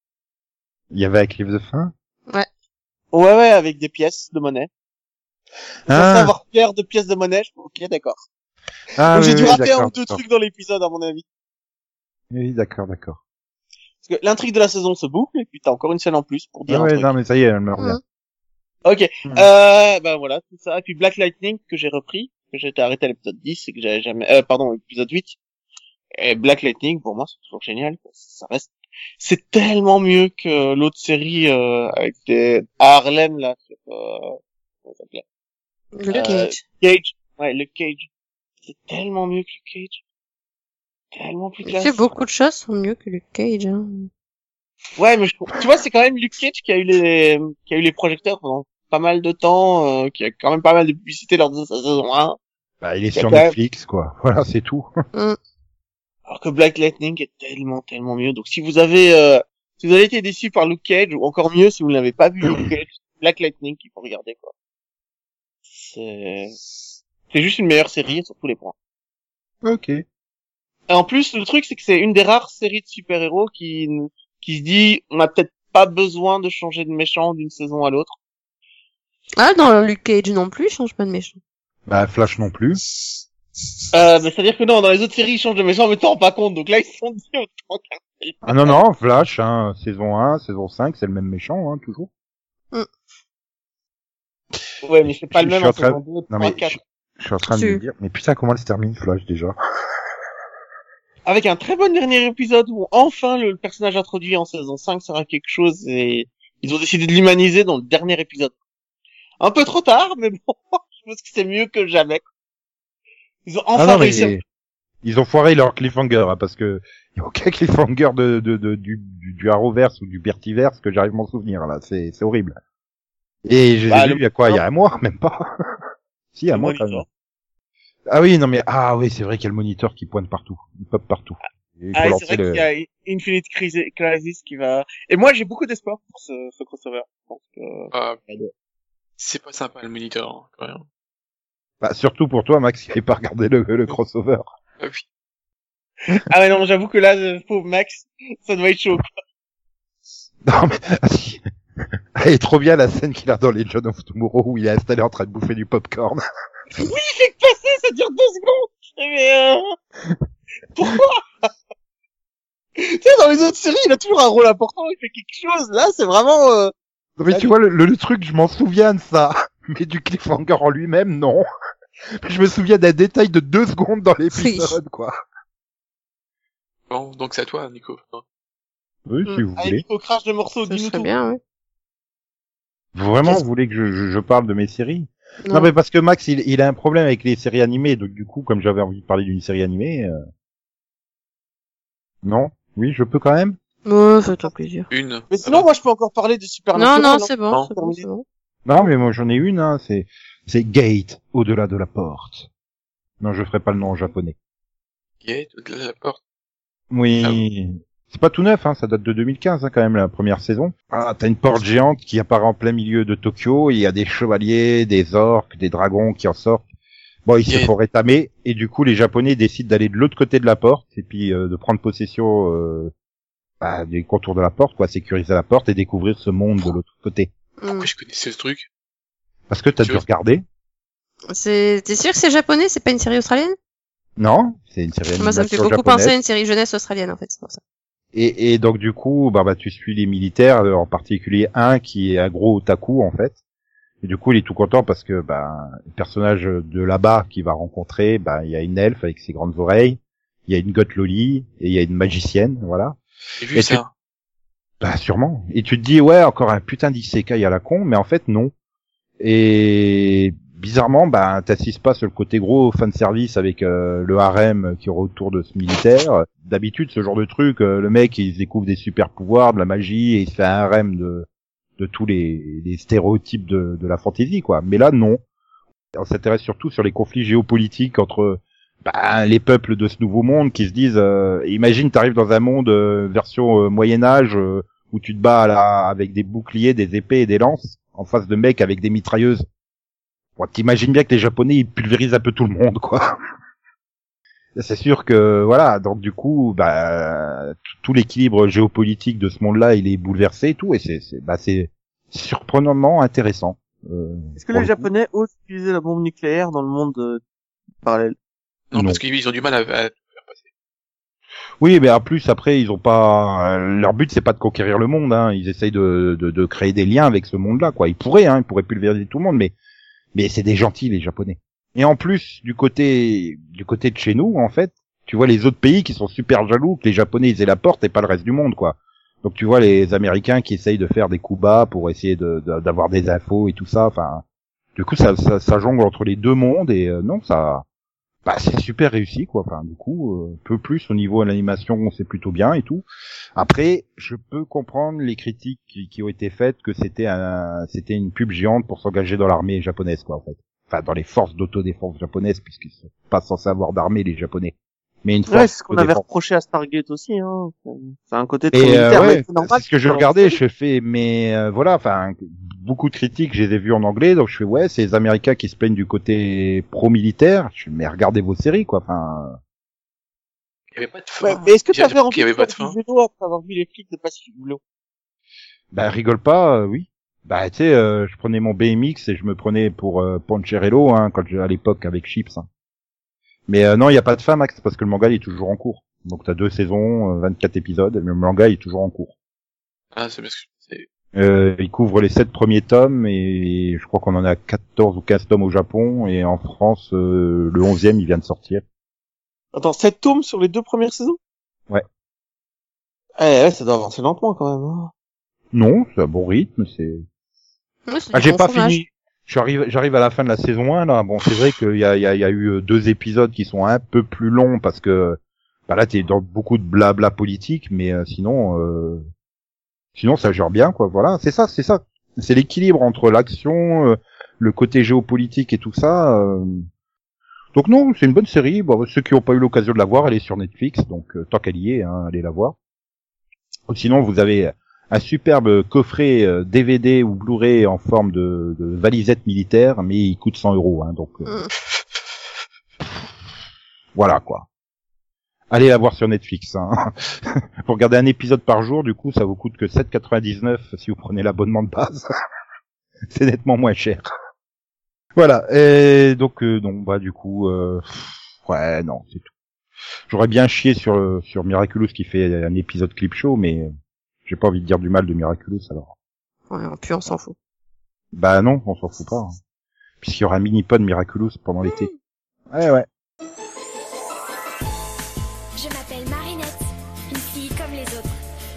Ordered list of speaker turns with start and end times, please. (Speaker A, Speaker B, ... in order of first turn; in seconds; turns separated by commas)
Speaker A: 0.9-1.9, Speaker B: 3.1-4.7, Speaker A: 5.9-6.3, Speaker B: 5.9-8.2, Speaker A: 8.9-10.2, Speaker B: 9.0-11.2, Speaker A: 12.3-13.2, Speaker B: 14.0-17.1, Speaker A: 16.7-18.0, Speaker B: 18.8-25.4, Speaker B: 26.2-35.2, Speaker C: 35.9-36.6, Speaker B: 36.1-38.1, Speaker B: 38.6-40.0, Speaker B: 41.1-42.1, Speaker C: 41.6-44.1, Speaker B: 45.0-52.4, Speaker A: 52.8-54.9, Speaker B: 53.1-53.5, Speaker B: 56.3-64.5, Speaker B: 65.7-66.5, Speaker B: 67.3-68.7, Speaker A: 69.6-70.0, Speaker B: 70.9-78.2, Speaker C: 79.4-81.4, Speaker A: 81.9-82.8, Speaker B: 83.9-88.8, Speaker A: 88.5-92.1, Speaker B: 94.8-96.8, Speaker A: 95.3-99.5, Speaker C: 97.5-97.8, Speaker B: 101.2-108.5, Speaker B: 109.4-112.2, Speaker B: 113.5-114.4, Speaker A: 113.8-114.4, Speaker A: 115.0-122.5, Speaker A: 123.5-125.5, Speaker B: 123.9-124.6, Speaker A: 126.3-127.0, Speaker B: 126.5-127.0, Speaker A: 128.1-132.7, Speaker B: 131.9-138.5, Speaker D: 137.9-138.2, Speaker D: 139.2-140.8, Speaker A: 141.8-144.5, Speaker D: 144.8-145.0, Speaker B: 146.1-149.1, Speaker A: 150.4-151.4, Speaker A: 152.2-156.2, Speaker B: 156.7-159.7, Speaker B: 160.7-161.5, Speaker B: 162.8-166.7, Speaker A: 167.2-171.4, Speaker A: 172.2-175.1, Speaker C: 174.3-174.8, Speaker D: 176.9-178.2, Speaker A: 179.1-179.8, Speaker B: 179.6-181.1, Speaker C: 180.7-181.4, Speaker A: 182.9-190.2, Speaker C: 185.4-185.7, Speaker A: 192.2-193.6, Speaker C: 193.8-194.9, Speaker D: 194.9-195.7, Speaker B: 195.3-198.0, Speaker C: 196.8-198.2, Speaker A: 198.7-202.5, Speaker A: 203.2-204.3, Speaker D: 205.2-206.2, Speaker A: 206.9-216.6, Speaker A: 217.2-222.9, Speaker D: 217.5-217.7, Speaker A: 223.6-227.3, Speaker C: 227.6-227.9, Speaker D: 227.7-228.7, Speaker A: 229.5-230.4, Speaker C: 231.3-233.6, Speaker A: 234.2-236.1, Speaker C: 235.2-237.6, Speaker A: 238.1-243.4, Speaker A: 244.0-253.0, Speaker D: 253.4-253.9, Speaker A: 253.5-253.8, Speaker A: 254.8-258.5, Speaker A: 259.2-271.3, Speaker A: 271.8-275.2, Speaker A: 275.9-289.4, Speaker A: 290.4-293.1, Speaker A: 294.6-304.9, Speaker B: 304.4-307.2, Speaker B: 307.8-308.1, Speaker D: 308.7-310.5, Speaker A: 308.7-309.0, Speaker A: 311.6-319.5, Speaker A: 320.1-334.2, Speaker A: 334.8-337.6, Speaker A: 338.2-342.8, Speaker A: 343.4-356.0, Speaker B: 355.3-360.4, Speaker A: 358.5-369.4, Speaker D: 370.7-372.8, Speaker B: 371.2-374.6, Speaker A: 375.7-382.4, Speaker A: 383.5-389.1, Speaker D: 389.9-390.9, Speaker A: 391.1-398.6, Speaker B: 399.5-401.2, Speaker B: 403.2-404.9, Speaker A: 405.5-407.0, Speaker C: 407.9-408.8, Speaker A: 408.1-419.0, Speaker A: 419.9-426.6, Speaker A: 427.5-432.6, Speaker A: 433.7-441.3, Speaker A: 443.9-444.5, Speaker A: 445.5-452.1, Speaker A: 453.1-454.1, Speaker A: 455.1-459.3, Speaker A: 460.1-463.7, Speaker A: 464.2-465.9, Speaker C: 466.5-467.3, Speaker A: 468.1-469.4, Speaker A: 470.0-471.9, Speaker A: 472.5-472.9, Speaker E: 475.6-478.1